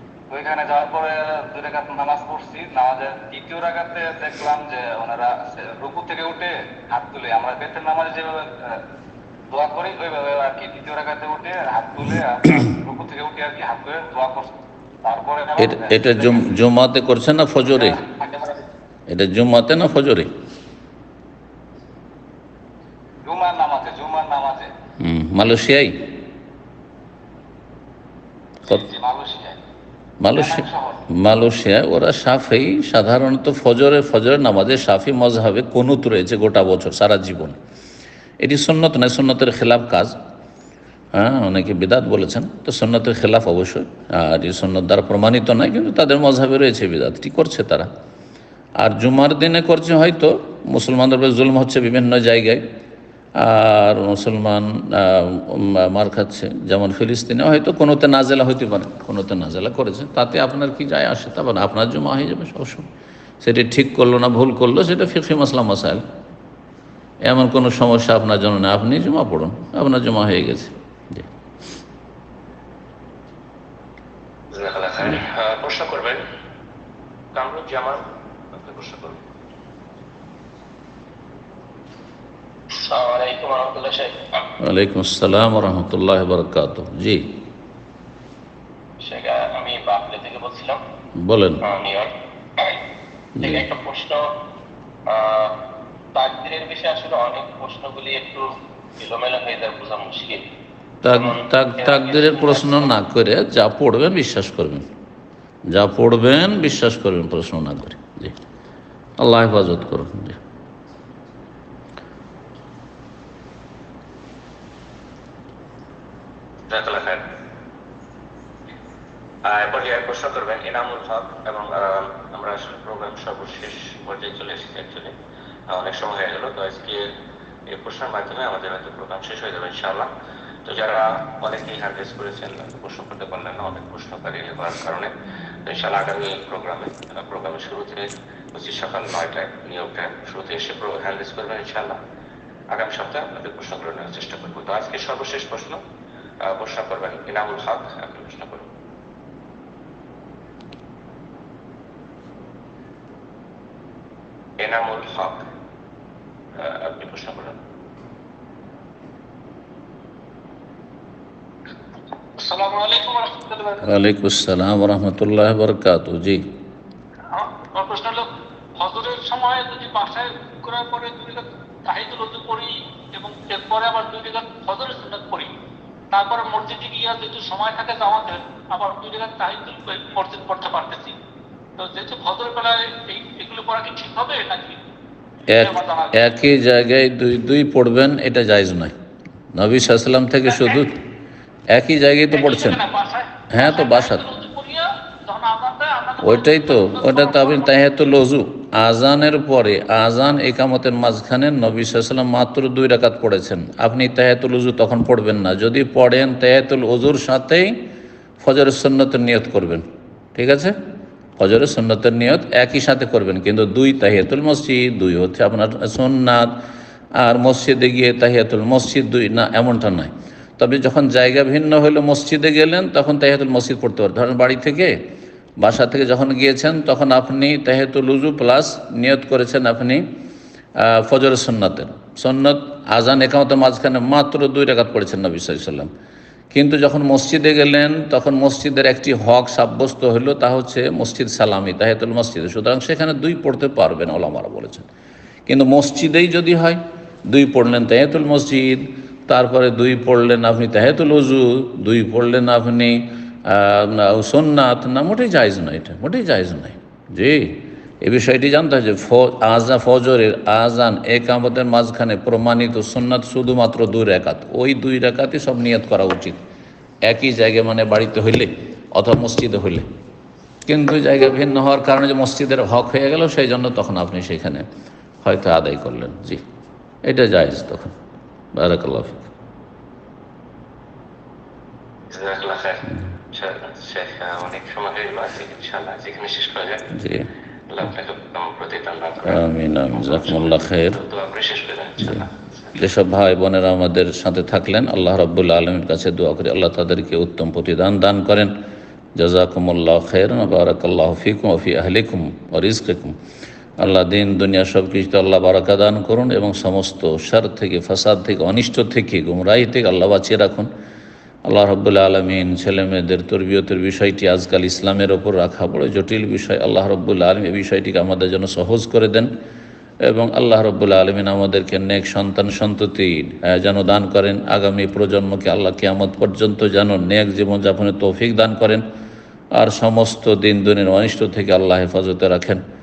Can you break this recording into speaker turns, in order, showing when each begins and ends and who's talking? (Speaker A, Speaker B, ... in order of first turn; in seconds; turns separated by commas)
Speaker A: 0.3-8.8, Speaker A: 9.5-14.5, Speaker A: 15.0-16.4, Speaker B: 15.6-18.0, Speaker A: 17.6-18.6, Speaker B: 19.1-20.3, Speaker A: 23.2-24.7, Speaker B: 25.0-26.1, Speaker A: 28.7-29.6, Speaker B: 30.2-37.6, Speaker A: 30.4-31.0, Speaker B: 38.4-40.1, Speaker B: 41.1-47.9, Speaker B: 48.8-52.6, Speaker B: 53.4-62.9, Speaker B: 63.4-66.0, Speaker B: 67.3-71.3, Speaker C: 74.5-76.2, Speaker C: 77.3-78.0, Speaker C: 78.6-79.2, Speaker C: 82.8-84.1, Speaker B: 84.6-87.2, Speaker C: 89.0-90.8, Speaker B: 91.2-91.6, Speaker C: 91.6-92.1, Speaker B: 93.4-93.7, Speaker C: 93.4-94.2, Speaker C: 96.2-100.4, Speaker B: 101.0-104.9, Speaker C: 101.1-102.4, Speaker B: 105.7-108.3, Speaker B: 109.2-110.4, Speaker C: 116.7-117.2, Speaker C: 119.5-125.1, Speaker C: 125.7-127.0, Speaker C: 127.7-130.1, Speaker C: 130.7-135.1, Speaker C: 135.7-142.0, Speaker C: 142.7-145.8, Speaker C: 146.4-148.7, Speaker C: 154.6-155.4, Speaker C: 156.6-157.6, Speaker D: 162.4-163.8, Speaker B: 163.8-166.4, Speaker D: 167.3-175.5, Speaker D: 176.1-181.2, Speaker D: 181.8-184.8, Speaker B: 185.5-188.9, Speaker D: 185.7-186.1, Speaker B: 189.5-191.0, Speaker B: 191.7-192.8, Speaker D: 192.3-197.7, Speaker B: 193.5-194.3, Speaker B: 196.2-207.7, Speaker B: 208.4-210.7, Speaker B: 211.4-216.5, Speaker B: 217.2-224.9, Speaker B: 225.6-230.0, Speaker B: 230.8-235.9, Speaker B: 236.5-244.9, Speaker B: 245.5-266.4, Speaker B: 267.1-269.9, Speaker B: 270.7-274.6, Speaker B: 275.2-276.4, Speaker B: 277.1-277.9, Speaker B: 278.6-279.3, Speaker C: 282.1-286.9, Speaker B: 286.9-287.3, Speaker C: 287.7-292.8, Speaker B: 289.2-291.0, Speaker B: 292.0-298.5, Speaker B: 299.2-303.2, Speaker B: 303.8-310.7, Speaker B: 311.5-319.3, Speaker B: 320.0-328.8, Speaker B: 329.6-332.6